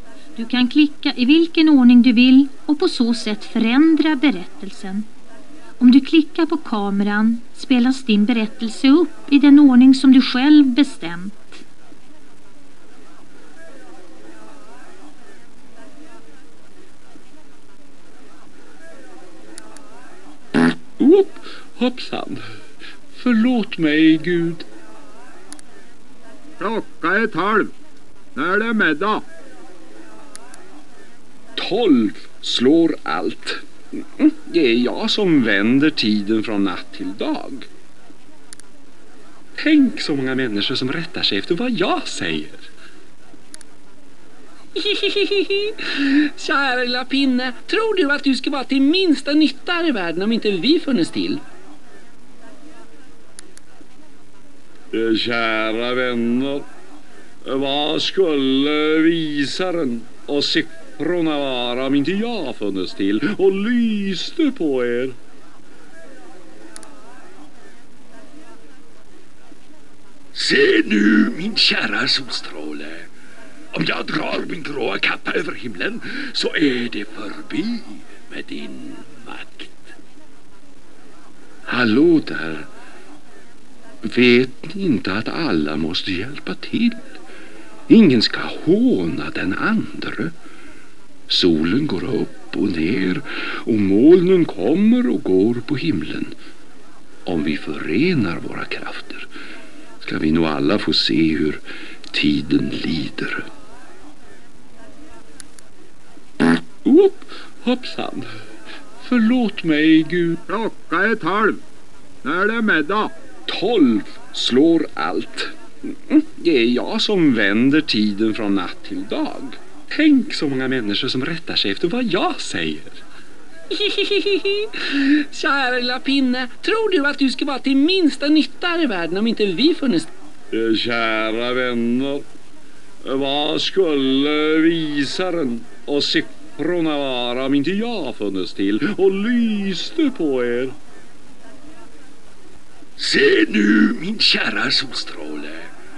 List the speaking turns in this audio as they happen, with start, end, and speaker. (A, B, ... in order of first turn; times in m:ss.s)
0:00.3-0:05.1 A
0:05.8-0:11.6 A
0:21.0-0:22.4 B
0:23.1-0:24.6 B
0:26.6-0:27.7 C
0:28.3-0:29.2 C
0:31.6-0:33.6 B
0:34.2-0:37.7 B
0:39.6-0:42.7 B
0:44.8-0:51.4 D
0:54.9-0:56.6 B
0:57.4-1:05.2 B
1:10.4-1:13.0 E
1:10.4-1:11.3 B
1:13.7-1:19.8 E
1:21.7-1:22.2 B
1:21.9-1:22.6 E
1:24.1-1:26.9 B
1:24.3-1:24.7 E
1:27.9-1:30.3 B
1:31.3-1:36.0 B
1:37.3-1:39.2 B
1:40.0-1:41.6 B
1:42.1-1:43.4 B
1:46.8-1:48.3 B
1:49.0-1:50.4 B
1:50.5-1:51.6 C
1:52.2-1:53.1 C
1:53.5-1:55.5 B
1:56.1-2:03.0 B
2:03.7-2:10.1 D
2:10.5-2:12.2 B
2:13.0-2:20.8 B
2:23.0-2:25.7 E